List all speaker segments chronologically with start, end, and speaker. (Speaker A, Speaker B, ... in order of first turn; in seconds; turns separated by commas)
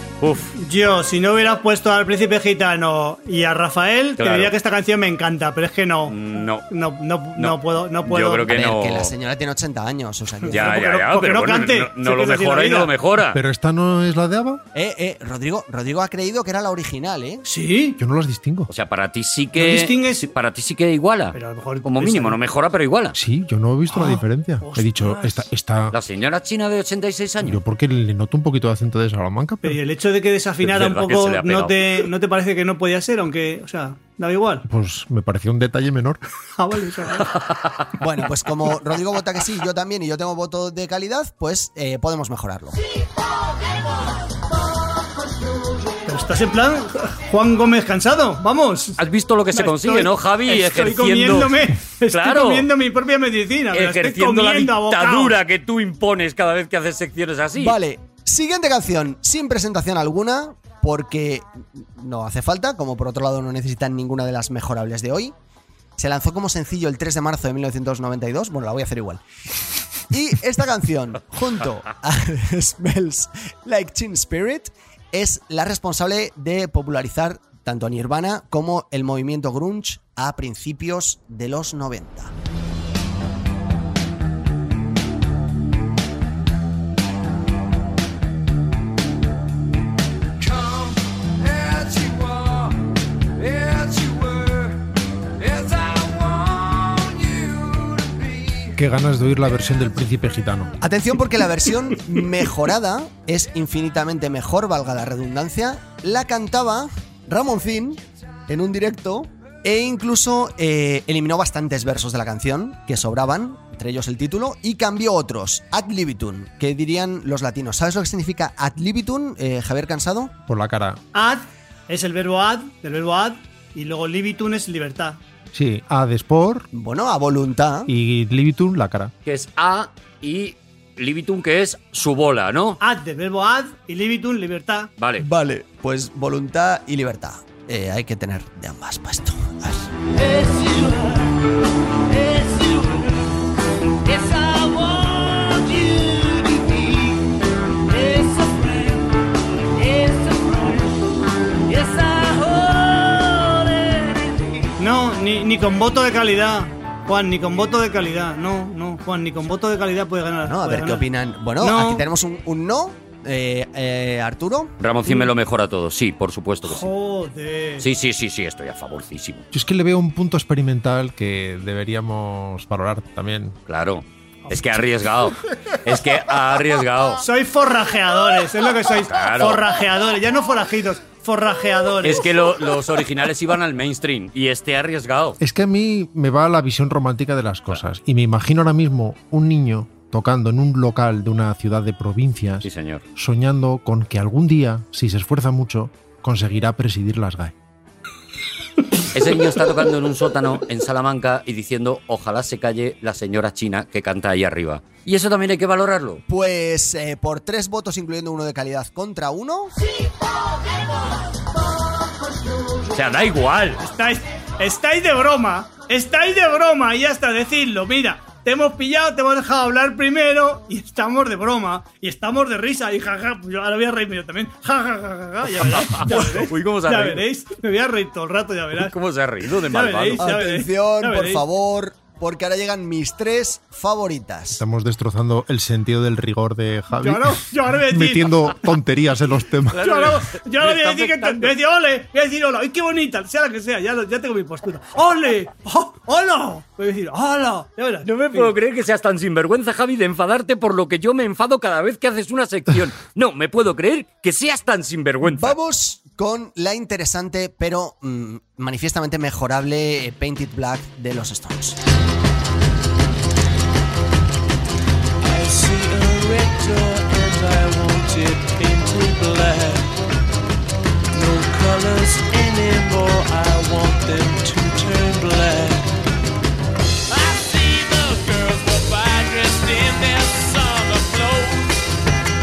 Speaker A: 0.2-0.5, Speaker B: 0.5-8.5, Speaker A: 4.2-4.5, Speaker A: 6.1-6.6, Speaker A: 7.4-9.1, Speaker C: 8.5-10.8, Speaker B: 10.4-12.9, Speaker A: 10.5-13.4, Speaker D: 13.3-14.6, Speaker C: 14.7-17.4, Speaker B: 17.4-18.0, Speaker D: 18.0-18.7, Speaker A: 18.7-23.1, Speaker B: 19.6-20.3, Speaker B: 21.3-22.4, Speaker D: 23.1-25.9, Speaker B: 23.9-25.4, Speaker A: 25.9-27.6, Speaker D: 27.4-29.8, Speaker B: 29.6-34.6, Speaker A: 30.6-32.0, Speaker D: 34.7-36.2, Speaker B: 36.6-37.3, Speaker A: 37.4-37.8, Speaker C: 38.0-42.8, Speaker B: 46.0-49.0, Speaker A: 49.0-52.7, Speaker B: 49.5-55.4, Speaker A: 53.7-57.8, Speaker C: 57.6-65.3, Speaker C: 66.0-69.2, Speaker C: 70.1-82.3, Speaker D: 98.8-100.7, Speaker C: 100.8-120.3, Speaker D: 120.5-121.0, Speaker B: 121.1-125.2, Speaker D: 125.5-126.7, Speaker C: 126.7-127.9, Speaker D: 127.9-129.1, Speaker A: 129.2-132.8, Speaker B: 132.8-134.9, Speaker A: 135.0-135.2, Speaker C: 135.2-139.9, Speaker E: 140.1-141.3, Speaker E: 142.1-143.2, Speaker E: 144.0-147.2, Speaker E: 147.9-149.2, Speaker E: 149.8-151.0, Speaker E: 151.7-154.7, Speaker B: 154.8-161.0, Speaker C: 160.4-164.7, Speaker B: 161.6-162.0, Speaker A: 164.8-166.9, Speaker B: 166.6-167.9, Speaker A: 167.8-169.4, Speaker D: 169.5-173.6, Speaker A: 173.7-177.2, Speaker B: 177.2-182.3, Speaker A: 179.1-179.6, Speaker A: 182.0-185.4, Speaker D: 185.4-197.5, Speaker A: 192.6-193.0, Speaker A: 199.1-206.2, Speaker C: 206.3-209.7, Speaker A: 212.9-213.8, Speaker B: 213.8-228.9, Speaker A: 225.6-227.2, Speaker A: 228.7-230.3, Speaker B: 229.7-231.4, Speaker C: 230.2-234.6, Speaker D: 234.5-239.9, Speaker B: 236.9-238.5, Speaker A: 239.7-241.5, Speaker B: 239.8-248.5, Speaker A: 248.1-255.6, Speaker C: 255.2-261.8, Speaker E: 265.2-269.9, Speaker E: 271.1-275.9, Speaker E: 277.1-281.8